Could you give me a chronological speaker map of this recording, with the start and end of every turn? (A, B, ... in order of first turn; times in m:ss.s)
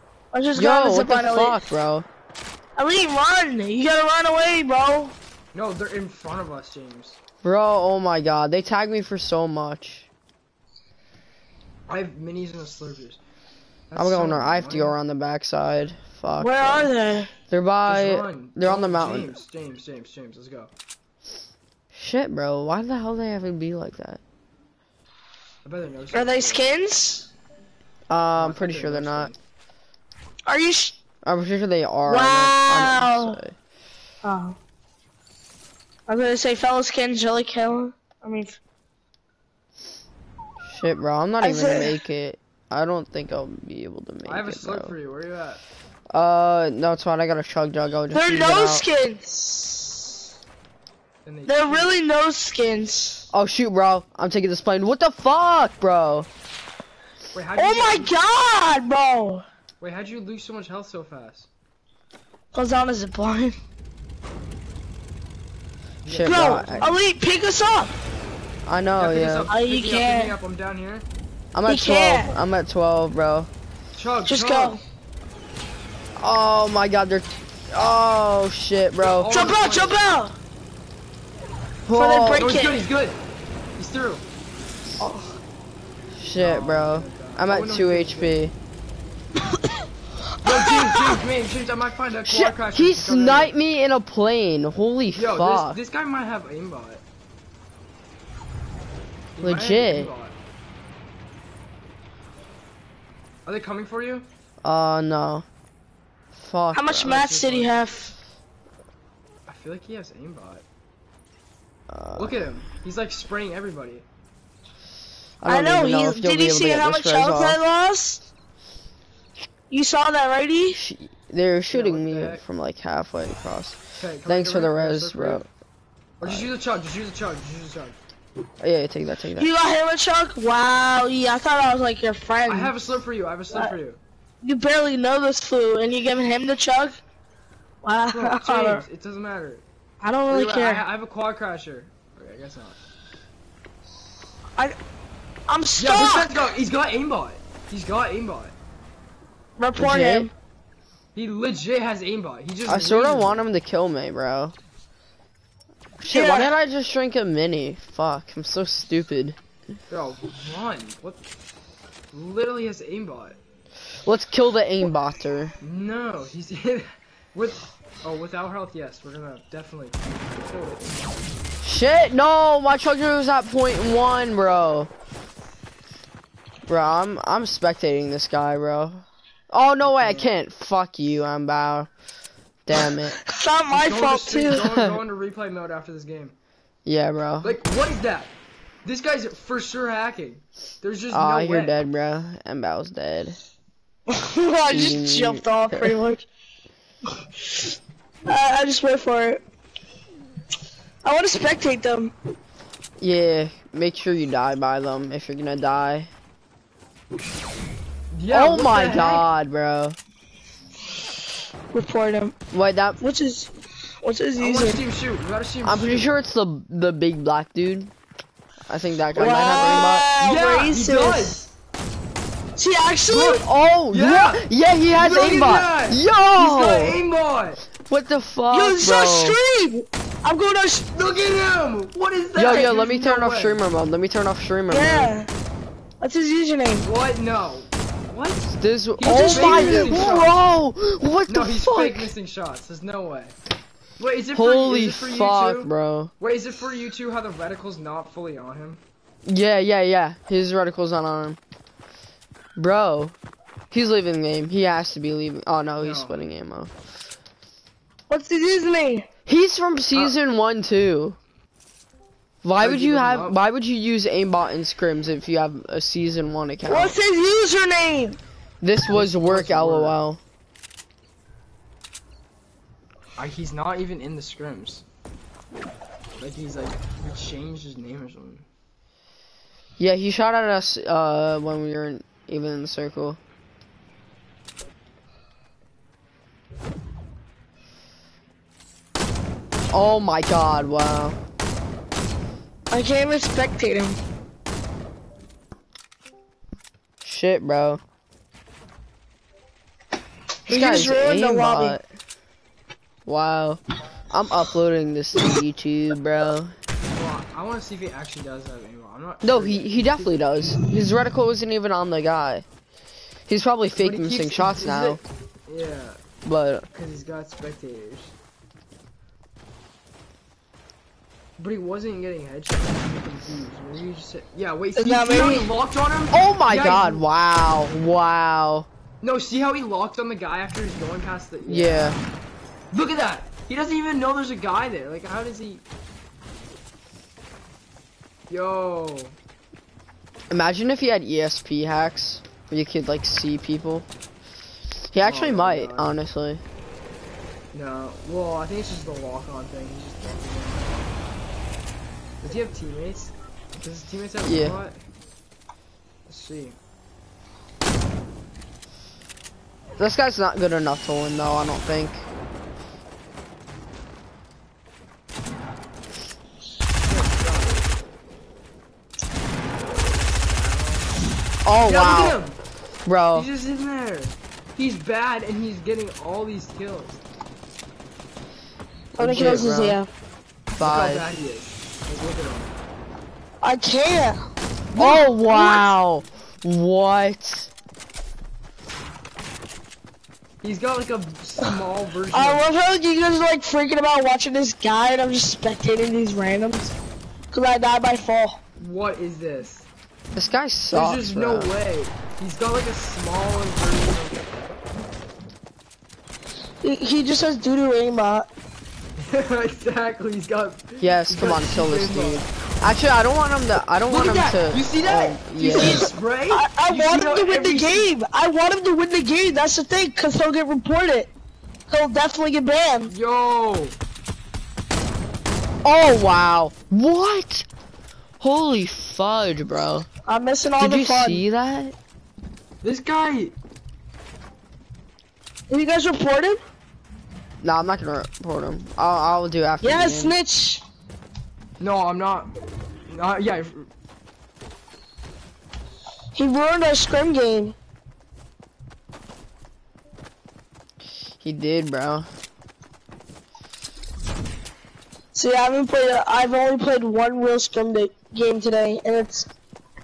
0:00.3-0:01.6 A
0:00.5-0:02.0 B
0:02.8-0:05.1 A
0:05.5-0:07.2 C
0:07.4-0:10.1 B
0:11.9-0:13.2 C
0:13.9-0:15.0 C
0:13.9-0:16.9 B
0:16.4-0:17.3 A
0:17.5-0:19.3 B
0:17.8-0:20.7 C
0:21.9-0:24.2 B
0:25.6-0:26.7 C
0:26.1-0:27.3 A
0:28.1-0:29.3 B
0:28.3-0:29.4 C
0:30.5-0:31.0 A
0:31.2-0:33.5 B
0:32.0-0:33.4 A
0:34.2-0:34.6 A
0:36.1-0:38.6 A
0:40.6-0:44.9 B
0:41.4-0:42.0 A
0:44.2-0:45.6 C
0:46.1-0:48.8 B
0:48.1-0:50.1 A
0:51.2-0:51.9 C
0:51.4-0:53.3 A
0:53.3-0:56.3 B
0:57.3-0:58.1 C
0:57.5-0:59.4 A
0:59.8-1:01.5 C
1:02.5-1:03.5 A
1:06.0-1:07.0 C
1:06.0-1:06.9 B
1:06.2-1:07.9 A
1:08.6-1:09.5 B
1:08.9-1:11.0 C
1:09.5-1:10.4 A
1:11.5-1:13.5 B
1:11.6-1:12.3 A
1:13.9-1:14.8 C
1:14.3-1:14.8 A
1:16.2-1:19.3 B
1:19.1-1:20.0 C
1:19.2-1:20.4 A
1:21.8-1:22.5 B
1:21.9-1:22.8 A
1:22.4-1:23.2 C
1:23.8-1:24.2 C
1:25.0-1:25.3 A
1:26.1-1:28.5 B
1:26.3-1:28.4 C
1:30.4-1:33.5 C
1:30.4-1:31.2 A
1:32.2-1:35.8 B
1:35.1-1:37.0 C
1:39.4-1:40.4 C
1:39.4-1:40.1 B
1:43.4-1:44.3 C
1:44.6-1:45.4 B
1:46.4-1:47.2 B
1:46.7-1:48.1 A
1:47.0-1:47.8 C
1:49.5-1:50.6 C
1:51.9-1:52.4 B
1:52.1-1:54.0 C
1:55.4-1:57.6 B
1:55.4-1:58.2 A
1:59.7-2:00.8 A
2:00.7-2:05.5 B
2:01.7-2:02.4 C
2:04.0-2:05.4 C
2:06.2-2:08.0 C
2:06.2-2:06.5 B
2:08.6-2:09.5 B
2:09.4-2:12.8 A
2:12.5-2:14.0 C
2:14.4-2:17.0 A
2:17.8-2:18.8 A
2:18.1-2:19.6 C
2:20.0-2:20.8 A
2:20.3-2:22.8 C
2:25.5-2:26.4 A
2:25.8-2:28.5 C
2:29.6-2:30.3 A
2:29.8-2:30.3 B
2:31.1-2:33.5 C
2:32.7-2:34.5 B
2:36.0-2:39.4 B
2:36.1-2:36.5 A
2:39.9-2:41.3 C
2:42.1-2:43.4 C
2:44.0-2:45.5 B
2:45.6-2:51.1 C
2:51.6-2:54.9 B
2:56.7-3:01.9 B
2:59.8-3:00.3 C
3:02.7-3:03.2 B
3:03.2-3:04.7 A
3:03.7-3:06.4 C
3:06.8-3:07.5 B
3:07.4-3:08.3 C
3:08.8-3:11.8 C
3:11.1-3:13.4 B
3:14.1-3:16.2 A
3:14.7-3:16.0 B
3:18.3-3:19.4 A
3:21.0-3:22.1 A
3:23.0-3:26.1 B
3:28.1-3:29.3 C
3:28.3-3:30.0 B
3:31.7-3:32.3 A
3:32.5-3:33.0 B
3:33.0-3:33.5 A
3:34.0-3:34.8 A
3:34.4-3:36.1 C
3:35.6-3:37.9 B
3:38.7-3:40.1 B
3:39.1-3:41.5 A
3:39.5-3:41.4 C
3:42.6-3:43.4 A
3:43.1-3:47.0 B
3:43.9-3:47.6 C
3:47.8-3:49.4 B
3:48.5-3:50.9 A
3:50.9-3:53.6 C
3:52.4-3:55.2 B
3:52.4-3:52.7 A
3:54.7-3:55.3 A
3:56.0-3:56.9 A
3:56.8-4:00.4 C
3:58.5-4:02.1 B
3:59.0-4:00.0 A
4:01.3-4:03.3 C
4:04.0-4:08.8 C
4:04.3-4:06.1 B
4:09.2-4:11.4 B
4:12.6-4:13.1 B
4:13.7-4:16.7 B
4:15.8-4:16.2 C
4:18.1-4:19.1 A
4:19.2-4:21.2 B
4:22.4-4:27.0 B
4:22.6-4:23.4 C
4:26.6-4:28.2 A
4:28.6-4:30.2 B
4:28.9-4:30.0 C
4:33.2-4:34.8 C
4:36.2-4:38.4 C
4:39.8-4:43.2 B
4:49.7-4:51.2 B
4:52.7-4:54.0 A
4:57.0-4:57.8 B
5:00.4-5:01.8 A
5:00.5-5:01.8 B
5:03.0-5:06.5 B
5:06.9-5:10.5 C
5:09.2-5:12.4 B
5:13.3-5:15.0 B
5:13.8-5:16.0 C
5:16.2-5:16.6 B
5:16.7-5:18.1 C
5:21.4-5:27.0 C
5:24.7-5:25.5 A
5:26.1-5:28.7 B
5:29.0-5:32.0 C
5:31.4-5:32.0 B
5:32.7-5:35.6 C
5:38.3-5:39.2 C
5:40.3-5:43.8 B
5:44.9-5:46.4 B
5:45.0-5:45.9 C
5:47.5-5:50.9 C
5:52.2-5:54.8 C
5:54.2-5:54.6 B
5:56.1-5:56.6 C
5:59.8-6:02.0 B
6:06.8-6:07.7 C
6:09.6-6:11.0 C
6:11.4-6:12.2 B
6:11.6-6:12.4 C
6:12.8-6:13.3 B
6:13.1-6:17.0 C
6:18.9-6:19.9 A
6:19.0-6:19.8 B
6:20.6-6:21.1 B
6:20.6-6:22.5 C
6:23.4-6:24.2 A
6:24.7-6:25.0 C
6:24.8-6:27.5 B
6:24.8-6:25.7 A
6:30.4-6:32.4 C
6:32.1-6:36.7 A
6:37.3-6:38.4 A
6:38.6-6:39.7 C
6:40.1-6:41.5 B
6:40.7-6:44.5 C
6:46.6-6:48.3 A
6:49.0-6:52.2 C
6:50.8-6:55.8 B
6:53.9-6:57.9 C
6:55.5-7:01.1 A
7:01.7-7:02.9 A
7:02.8-7:03.8 C
7:05.6-7:07.4 B
7:08.2-7:09.9 B
7:10.1-7:11.2 A
7:10.6-7:11.7 B
7:12.6-7:13.4 C
7:15.5-7:16.4 A
7:17.4-7:20.2 B
7:19.6-7:20.6 A
7:21.6-7:22.3 C
7:22.9-7:23.7 C
7:26.1-7:27.5 A
7:31.2-7:32.1 B
7:35.1-7:39.3 A